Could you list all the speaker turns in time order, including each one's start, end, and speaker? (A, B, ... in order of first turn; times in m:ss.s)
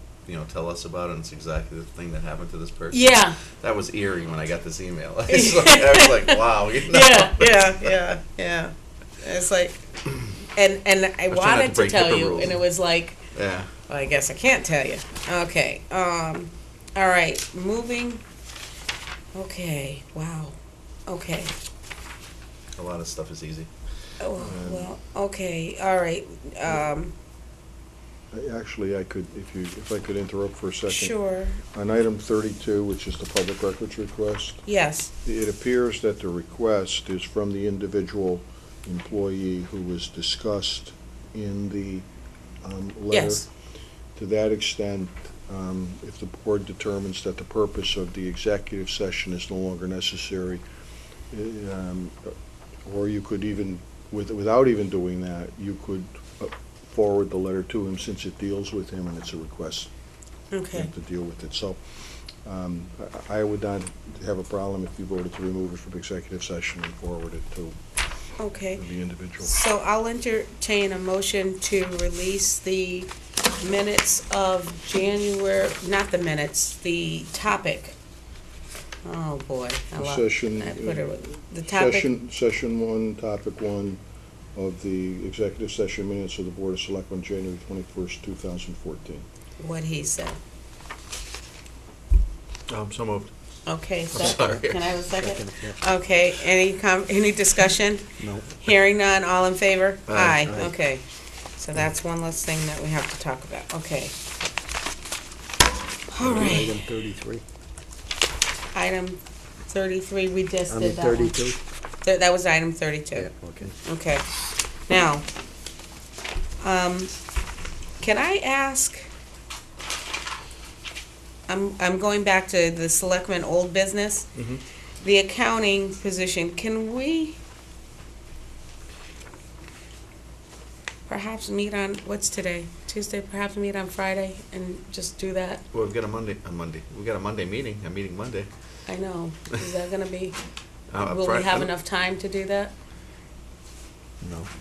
0:00.2-0:07.9 A
0:02.9-0:03.4 B
0:05.3-0:13.3 B
0:11.3-0:12.6 A
0:13.3-0:13.7 A
0:13.9-0:18.2 B
0:19.3-0:21.6 B
0:22.8-0:23.7 A
0:24.2-0:27.2 B
0:24.4-0:24.9 C
0:28.3-0:34.6 C
0:30.9-0:31.6 B
0:34.6-0:35.1 B
0:35.2-0:42.1 C
0:42.6-0:43.4 C
0:43.1-0:43.5 B
0:44.2-0:50.6 C
0:51.3-0:52.3 C
0:52.8-0:59.9 C
1:00.5-1:00.9 B
1:00.7-1:01.8 C
1:02.4-1:07.8 C
1:08.4-1:08.8 B
1:08.8-1:09.5 C
1:09.4-1:18.0 B
1:19.0-1:22.1 B
1:20.0-1:24.0 C
1:24.6-1:29.2 C
1:29.6-1:30.4 B
1:32.7-1:33.3 A
1:33.7-1:41.0 B
1:34.1-1:34.9 A
1:34.2-1:34.5 D
1:35.1-1:35.8 D
1:38.2-1:38.5 D
1:40.1-1:40.6 A
1:40.4-1:40.7 D
1:41.6-1:44.2 B
1:46.1-1:46.8 B
1:46.2-1:47.4 D
1:48.7-1:51.4 B
1:50.7-1:51.6 D
1:52.0-1:53.3 B
1:53.1-1:53.8 D
1:53.8-1:54.3 B
1:54.9-1:55.2 B
1:56.6-1:57.1 B
1:58.0-1:59.1 B
2:01.5-2:04.3 B
2:05.0-2:07.4 B
2:11.1-2:15.6 B
2:15.7-2:18.5 A
2:18.9-2:20.4 B
2:20.9-2:21.7 A
2:21.0-2:22.7 B
2:24.2-2:24.5 D